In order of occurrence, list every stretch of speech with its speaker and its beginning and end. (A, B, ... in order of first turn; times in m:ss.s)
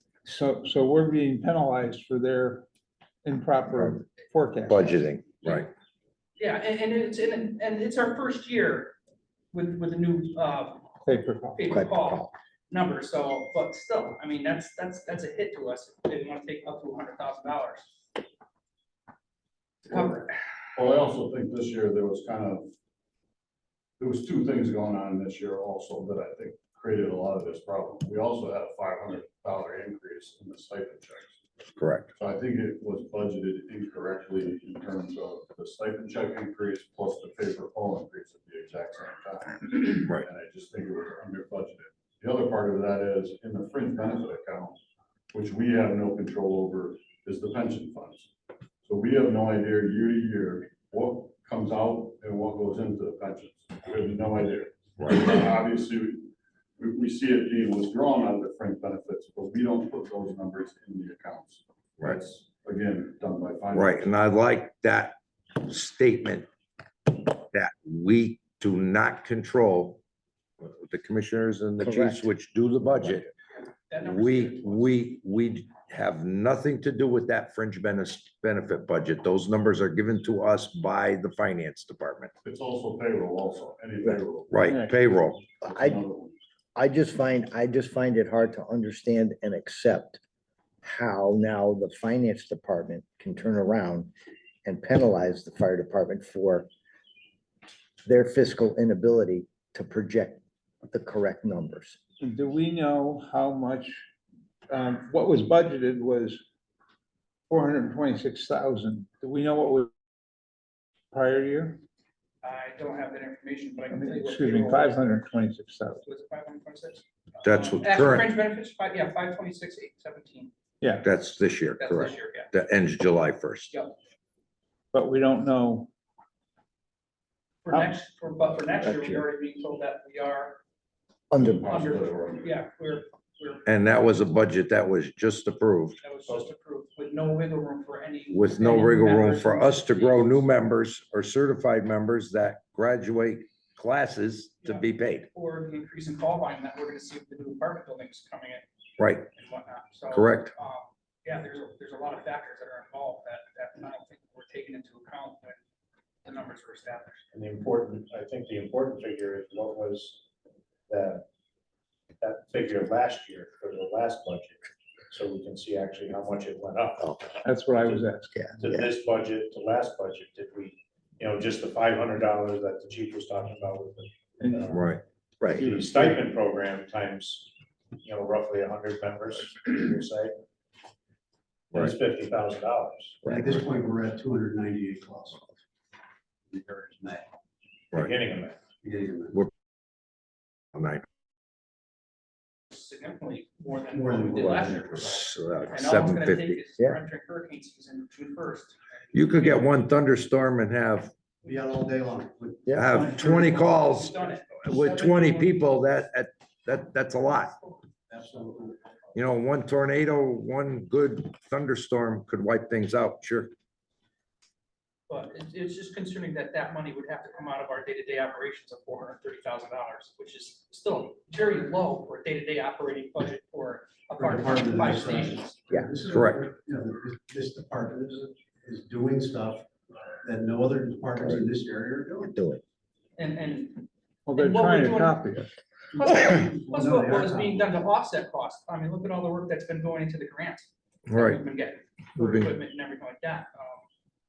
0:00.2-0:02.7 A
0:03.2-0:05.1 A
0:04.7-0:05.7 B
0:06.4-0:09.0 C
0:09.5-0:11.0 C
0:11.0-0:11.7 A
0:11.6-0:17.9 C
0:11.7-0:12.3 D
0:19.9-0:20.3 C
0:20.8-0:22.7 E
0:24.0-0:31.4 E
0:31.8-0:32.1 B
0:32.2-0:44.8 E
0:45.3-0:48.3 E
0:48.8-1:04.1 E
0:55.0-0:55.3 B
1:03.7-1:06.5 B
1:07.1-1:10.0 B
1:10.6-1:13.3 B
1:11.8-1:12.3 D
1:13.9-1:14.9 C
1:14.0-1:22.3 B
1:22.4-1:24.6 E
1:24.5-1:25.5 B
1:24.6-1:25.0 A
1:25.6-1:26.4 E
1:25.6-1:26.0 D
1:26.8-1:30.2 D
1:30.8-1:34.1 D
1:34.6-1:36.7 D
1:38.0-1:42.0 D
1:42.2-1:44.0 A
1:44.7-1:46.4 A
1:47.5-1:49.9 A
1:51.1-1:51.8 A
1:52.4-1:55.1 C
1:53.9-1:56.0 A
1:56.0-2:00.5 C
1:57.4-1:58.3 B
2:00.8-2:01.1 A
2:01.0-2:03.7 B
2:01.8-2:02.5 C
2:04.9-2:05.9 A
2:07.6-2:10.6 C
2:08.9-2:09.2 A
2:11.3-2:11.7 D
2:11.4-2:12.5 E
2:11.7-2:13.7 C
2:13.7-2:16.0 B
2:16.0-2:20.4 C
2:18.3-2:25.3 B
2:24.6-2:28.6 C
2:29.0-2:29.3 B
2:29.3-2:35.6 C
2:30.1-2:30.5 B
2:36.2-2:37.2 C
2:37.3-2:40.2 F
2:40.9-2:41.3 F
2:42.2-2:48.0 F
2:47.0-2:47.3 D
2:47.4-2:48.7 A
2:48.3-2:48.9 D
2:48.6-2:54.9 F
2:54.4-2:54.7 A
2:54.7-2:55.0 B
2:55.4-2:55.7 D
2:55.5-2:56.2 A
2:55.6-2:57.5 F
2:58.0-3:00.4 F
3:01.7-3:03.3 F
3:03.2-3:05.5 G
3:03.3-3:03.5 B
3:06.5-3:07.3 G
3:07.9-3:08.6 F
3:08.8-3:09.5 G
3:10.8-3:11.0 B
3:12.7-3:19.7 C
3:13.9-3:15.0 G
3:15.0-3:16.6 B
3:19.1-3:21.1 B
3:21.4-3:23.6 G
3:22.7-3:23.0 D
3:22.7-3:27.6 B
3:23.0-3:25.6 C
3:28.1-3:28.9 G
3:29.1-3:33.5 B
3:35.1-3:45.6 C
3:44.2-3:49.7 G
3:46.1-3:46.5 B
3:50.2-3:52.4 G
3:51.2-3:51.4 D
3:52.2-3:52.6 D
3:53.2-3:55.2 C
3:54.3-3:55.5 A
3:56.0-4:03.9 C
3:56.0-3:57.8 G
4:01.1-4:01.4 B
4:02.2-4:02.5 B